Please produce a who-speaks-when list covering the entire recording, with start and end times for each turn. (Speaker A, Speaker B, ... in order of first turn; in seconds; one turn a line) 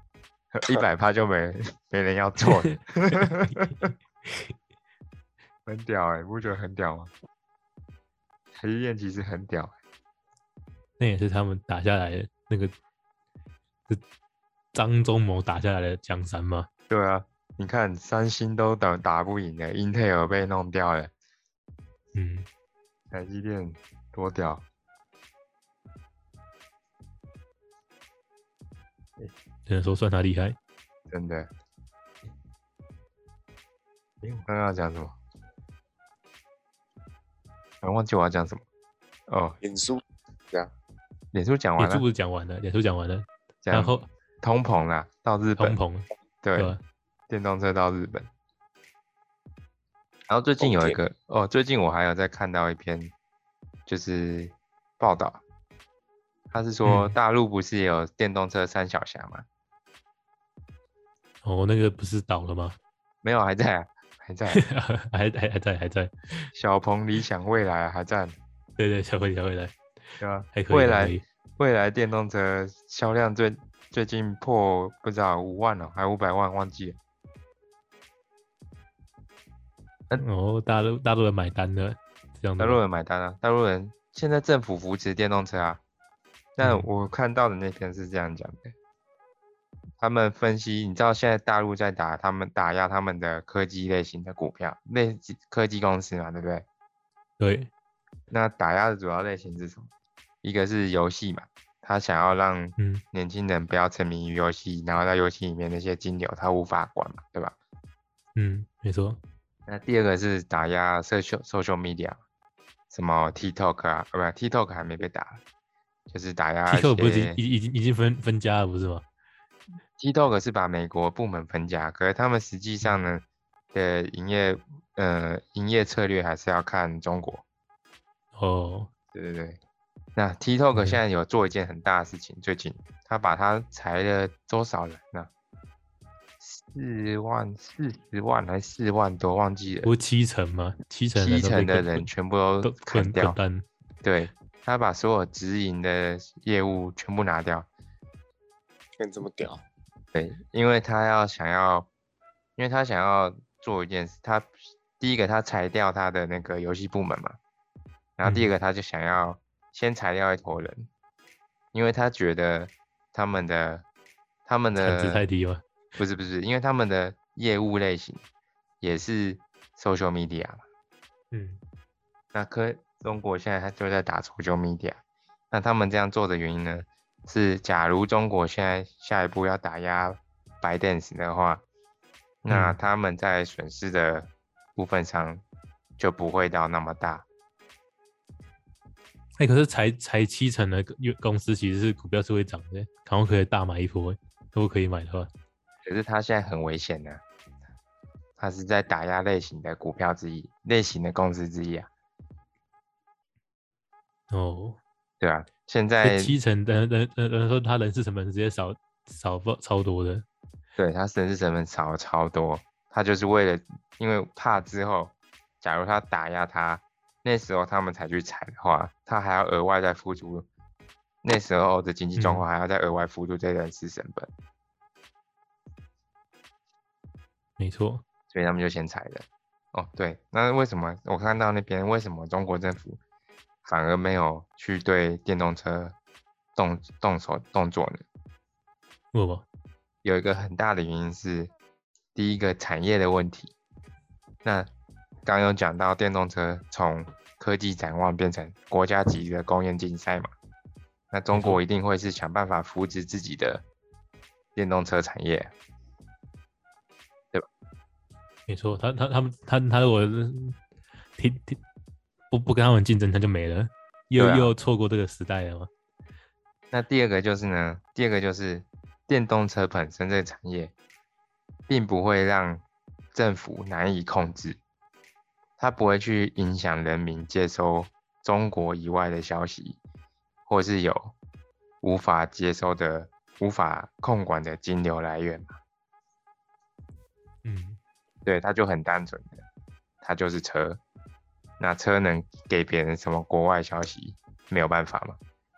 Speaker A: 0.5-3.8
Speaker B: 4.2-4.5
Speaker A: 5.7-7.1
Speaker A: 8.6-9.8
Speaker B: 11.0-12.7
Speaker B: 14.7-16.7
Speaker A: 16.9-21.1
Speaker B: 22.1-22.5
Speaker A: 23.1-24.6
Speaker B: 29.7-30.6
Speaker A: 31.1-31.5
Speaker A: 34.2-35.1
Speaker A: 37.8-38.6
Speaker A: 39.3-39.6
Speaker C: 39.6-40.7
Speaker A: 41.3-42.0
Speaker B: 41.8-44.0
Speaker A: 43.6-45.8
Speaker B: 45.6-46.8
Speaker A: 46.4-46.7
Speaker A: 47.3-48.3
Speaker A: 50.3-53.1
Speaker C: 50.6-51.0
Speaker A: 53.9-55.4
Speaker A: 56.5-59.4
Speaker B: 56.8-57.1
Speaker B: 61.4-62.8
Speaker A: 63.2-64.6
Speaker B: 64.5-66.5
Speaker A: 66.5-68.4
Speaker B: 68.8-69.7
Speaker A: 70.2-77.0
Speaker B: 70.5-71.2
Speaker B: 80.2-82.8
Speaker A: 82.6-85.8
Speaker A: 86.6-88.7
Speaker B: 86.6-86.9
Speaker A: 90.0-96.6
Speaker B: 97.4-97.7
Speaker A: 98.3-99.9
Speaker A: 100.4-107.5
Speaker B: 102.8-103.0
Speaker B: 108.3-109.2
Speaker A: 109.7-112.2
Speaker A: 112.9-115.4
Speaker A: 116.1-117.4
Speaker B: 116.7-119.0
Speaker A: 120.0-127.4
Speaker B: 128.3-128.9
Speaker A: 129.1-129.6
Speaker A: 130.2-135.3
Speaker B: 130.7-131.0
Speaker A: 136.4-139.9
Speaker B: 139.8-142.1
Speaker A: 141.1-143.4
Speaker B: 142.6-143.7
Speaker A: 144.0-147.7
Speaker C: 149.0-149.6
Speaker A: 150.1-151.9
Speaker A: 152.6-157.4
Speaker A: 158.2-160.9
Speaker B: 158.2-158.5
Speaker A: 161.7-163.8
Speaker A: 164.4-165.2
Speaker B: 164.7-165.6
Speaker A: 166.0-168.2
Speaker A: 168.8-170.6
Speaker B: 171.3-171.6
Speaker A: 172.3-175.0
Speaker A: 175.5-181.6
Speaker A: 182.4-185.4
Speaker B: 182.5-182.8
Speaker A: 186.0-187.2
Speaker B: 189.4-195.3
Speaker A: 195.8-197.2
Speaker A: 198.4-201.9
Speaker B: 204.3-204.8
Speaker A: 205.2-206.4
Speaker B: 206.0-210.2
Speaker A: 210.8-220.5
Speaker A: 221.2-224.3
Speaker B: 222.2-222.4
Speaker B: 227.6-228.0
Speaker A: 228.3-233.0
Speaker A: 233.6-235.9
Speaker A: 236.6-238.0
Speaker B: 239.1-239.4
Speaker A: 240.0-241.5
Speaker A: 242.1-243.5
Speaker A: 244.4-244.7
Speaker A: 245.2-250.3
Speaker A: 251.1-253.6
Speaker B: 251.3-251.6
Speaker A: 254.5-255.5
Speaker B: 258.5-260.6
Speaker B: 261.2-261.6
Speaker B: 262.3-265.7
Speaker A: 264.2-264.5
Speaker A: 266.7-270.7
Speaker A: 271.7-274.6
Speaker A: 275.6-279.8
Speaker A: 280.5-281.1
Speaker A: 281.8-285.5
Speaker B: 287.4-287.8
Speaker A: 288.2-289.4
Speaker A: 290.0-290.8
Speaker A: 291.6-295.2